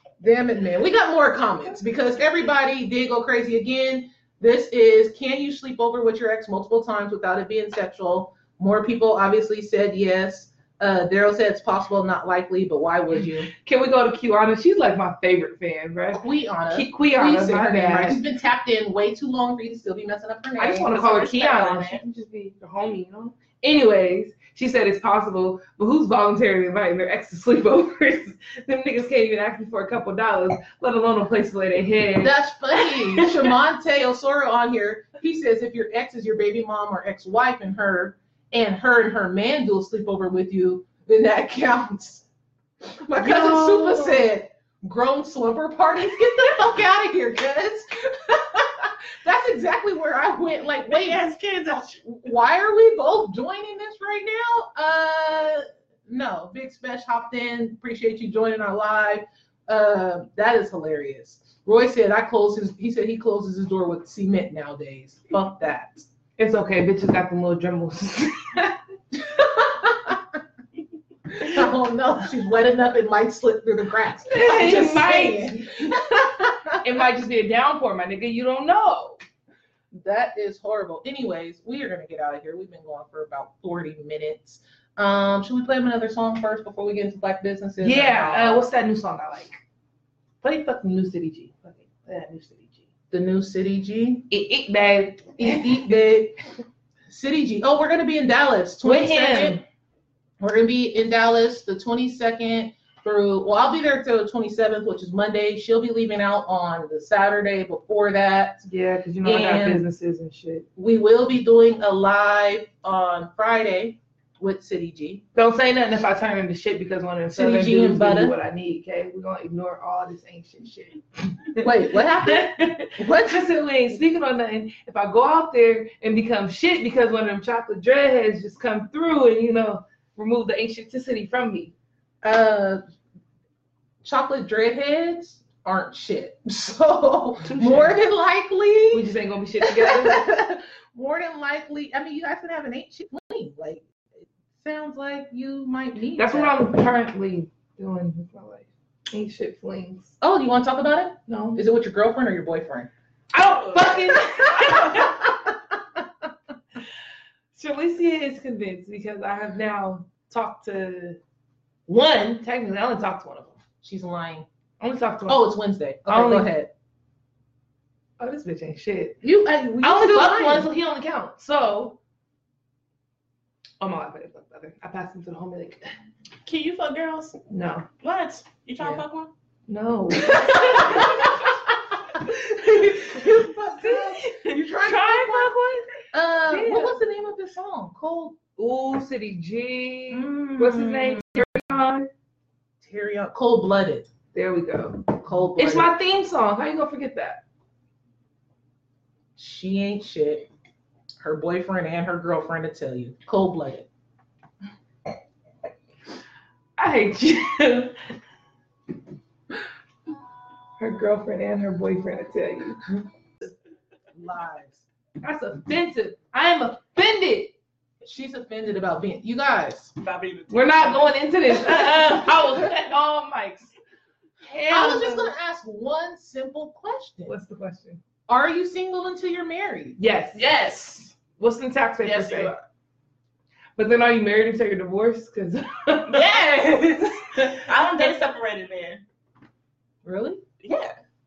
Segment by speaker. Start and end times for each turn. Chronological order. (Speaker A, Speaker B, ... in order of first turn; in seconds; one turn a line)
Speaker A: 0.2-13.5
Speaker B: 13.5-18.2
Speaker A: 16.1-20.9
Speaker B: 20.6-32.4
Speaker C: 20.9-22.0
Speaker A: 32.2-42.3
Speaker A: 43.0-51.2
Speaker B: 43.2-44.3
Speaker C: 50.9-52.1
Speaker A: 52.1-66.0
Speaker B: 66.4-68.8
Speaker A: 69.2-70.4
Speaker A: 71.4-77.0
Speaker B: 74.3-76.0
Speaker B: 76.8-79.2
Speaker A: 80.0-88.6
Speaker B: 87.8-89.6
Speaker B: 90.4-92.8
Speaker A: 93.1-94.3
Speaker B: 94.3-95.8
Speaker A: 95.4-96.4
Speaker A: 97.1-99.6
Speaker B: 98.8-99.6
Speaker A: 100.4-108.6
Speaker B: 108.7-110.7
Speaker A: 109.2-109.8
Speaker A: 110.8-115.2
Speaker B: 115.3-131.7
Speaker A: 117.3-118.3
Speaker A: 121.6-123.5
Speaker A: 132.2-132.8
Speaker A: 134.0-139.1
Speaker B: 137.4-137.9
Speaker B: 138.9-140.3
Speaker A: 139.6-143.8
Speaker A: 144.6-146.6
Speaker B: 146.2-150.1
Speaker A: 150.2-152.9
Speaker B: 151.3-151.6
Speaker B: 153.3-155.2
Speaker A: 154.5-156.0
Speaker B: 157.5-161.2
Speaker B: 161.9-163.6
Speaker A: 163.8-164.5
Speaker B: 164.8-165.5
Speaker A: 165.3-166.7
Speaker B: 166.1-166.5
Speaker B: 168.2-169.2
Speaker A: 169.2-170.7
Speaker B: 169.8-172.0
Speaker B: 173.8-175.8
Speaker C: 176.4-177.4
Speaker B: 177.5-177.9
Speaker C: 178.0-179.3
Speaker B: 179.7-181.3
Speaker A: 180.4-181.3
Speaker B: 182.3-185.9
Speaker A: 182.6-185.5
Speaker A: 186.1-188.4
Speaker B: 186.5-186.9
Speaker B: 188.6-192.1
Speaker A: 190.3-191.0
Speaker A: 192.8-194.1
Speaker B: 194.3-197.4
Speaker A: 195.2-195.9
Speaker A: 199.4-200.5
Speaker A: 201.2-203.9
Speaker B: 206.8-208.0
Speaker B: 210.8-213.0
Speaker A: 214.1-214.8
Speaker B: 215.2-217.5
Speaker A: 218.0-219.9
Speaker C: 220.0-221.1
Speaker B: 220.5-223.7
Speaker B: 224.4-225.3
Speaker A: 224.7-227.4
Speaker B: 227.3-228.0
Speaker A: 228.3-230.0
Speaker B: 230.0-232.5
Speaker C: 232.0-232.6
Speaker B: 233.8-236.4
Speaker C: 236.1-239.0
Speaker B: 237.2-237.6
Speaker A: 240.0-240.4
Speaker C: 240.6-240.9